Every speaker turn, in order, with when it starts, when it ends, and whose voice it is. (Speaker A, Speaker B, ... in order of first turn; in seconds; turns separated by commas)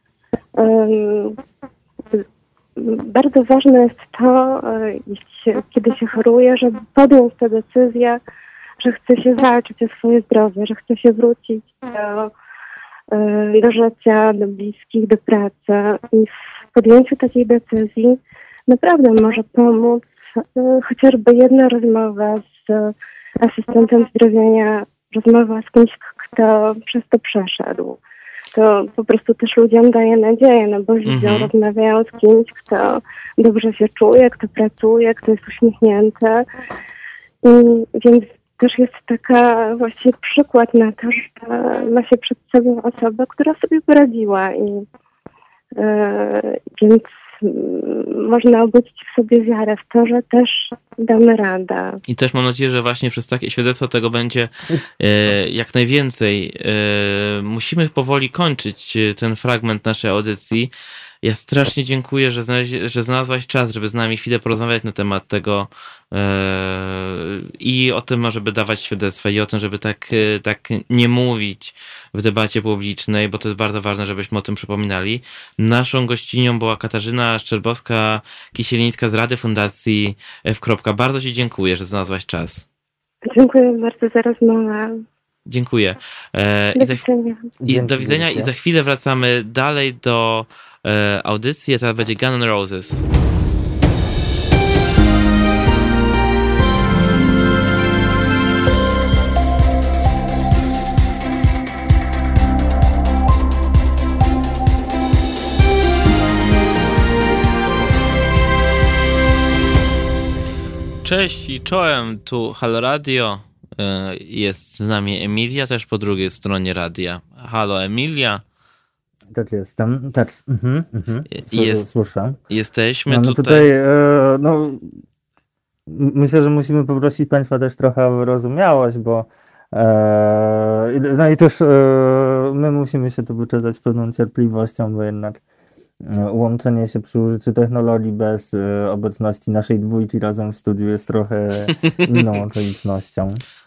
Speaker A: 0.6-1.3, Speaker A: 2.8-8.2, Speaker A: 8.8-12.3, Speaker A: 13.1-18.2, Speaker A: 18.7-20.0, Speaker A: 20.6-22.9, Speaker A: 23.4-28.0, Speaker A: 28.5-36.4, Speaker B: 31.0-31.5, Speaker A: 37.4-44.8, Speaker A: 45.8-52.0, Speaker B: 52.1-60.7, Speaker B: 61.2-82.6, Speaker A: 83.3-84.9, Speaker B: 85.5-87.0, Speaker A: 86.8-87.5, Speaker C: 87.6-88.5, Speaker B: 87.7-93.0, Speaker B: 111.0-118.4, Speaker C: 119.3-122.4, Speaker B: 121.3-121.8, Speaker B: 122.5-123.7, Speaker C: 123.1-124.9, Speaker C: 125.9-135.4, Speaker C: 136.0-143.4